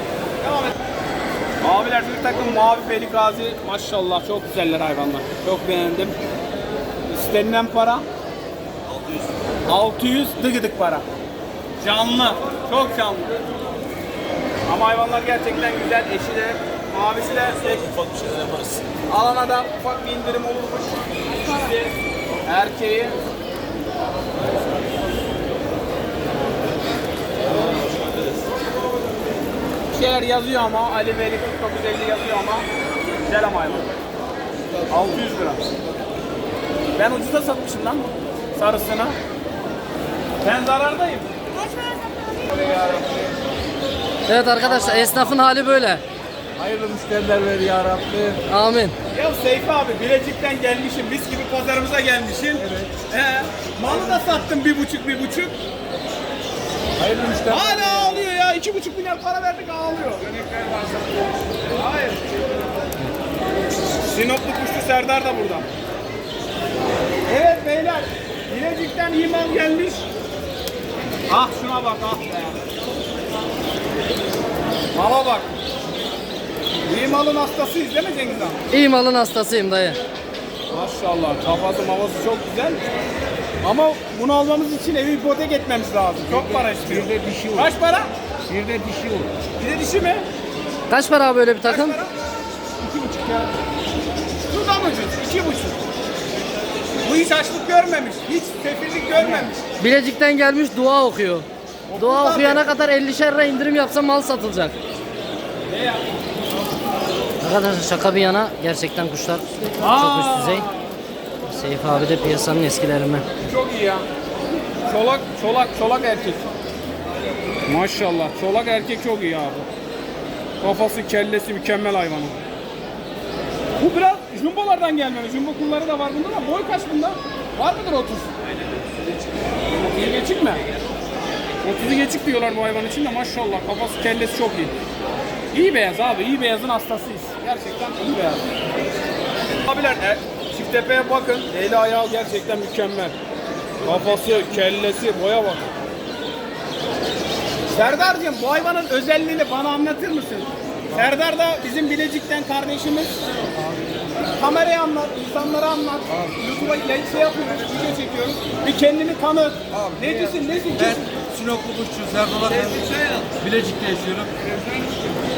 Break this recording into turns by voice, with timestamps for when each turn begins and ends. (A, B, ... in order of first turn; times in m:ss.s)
0:00.4-0:00.8 A
0:01.6-0:06.2 A
0:07.1-0:08.0 A
0:09.6-0:11.0 A
0:11.8-0:13.3 A
0:14.7-0:18.1 A
0:19.1-0:21.9 A
0:22.4-0:23.2 A
0:29.9-0:32.6 A
0:33.2-0:33.9 A
0:34.9-0:35.6 A
0:37.0-0:39.2 A
0:40.4-0:41.3 A
0:42.4-0:43.3 A
0:44.3-0:46.0 B
0:46.6-0:48.4 C
0:48.5-0:48.9 B
0:49.1-0:55.6 A
0:52.6-0:52.9 C
0:53.8-0:54.3 C
0:57.0-0:58.3 C
0:57.4-1:00.3 A
1:00.3-1:01.1 C
1:01.7-1:02.3 A
1:04.1-1:05.7 A
1:07.3-1:10.0 A
1:11.3-1:12.6 A
1:14.9-1:15.5 A
1:16.8-1:18.6 A
1:18.7-1:20.0 B
1:20.7-1:22.8 A
1:23.6-1:28.1 A
1:26.2-1:27.7 C
1:28.5-1:29.3 C
1:29.6-1:30.2 A
1:30.9-1:32.0 B
1:31.6-1:32.1 A
1:32.9-1:33.3 C
1:34.5-1:35.8 A
1:37.0-1:39.6 A
1:39.8-1:44.7 B
1:41.9-1:42.6 A
1:45.7-1:46.0 A
1:47.4-1:50.7 B
1:49.8-1:50.8 A
1:51.4-1:53.2 B
1:53.4-1:54.0 A
1:54.8-1:56.4 A
1:57.7-1:59.7 A
2:00.6-2:02.3 A
2:03.8-2:08.3 A
2:09.7-2:10.6 A
2:11.6-2:14.7 A
2:15.5-2:18.4 A
2:19.6-2:23.1 A
2:23.8-2:25.6 A
2:27.7-2:33.2 A
2:33.6-2:34.0 C
2:34.3-2:41.0 A
2:36.1-2:36.4 C
2:39.7-2:44.3 C
2:42.4-2:43.3 A
2:44.4-2:45.0 A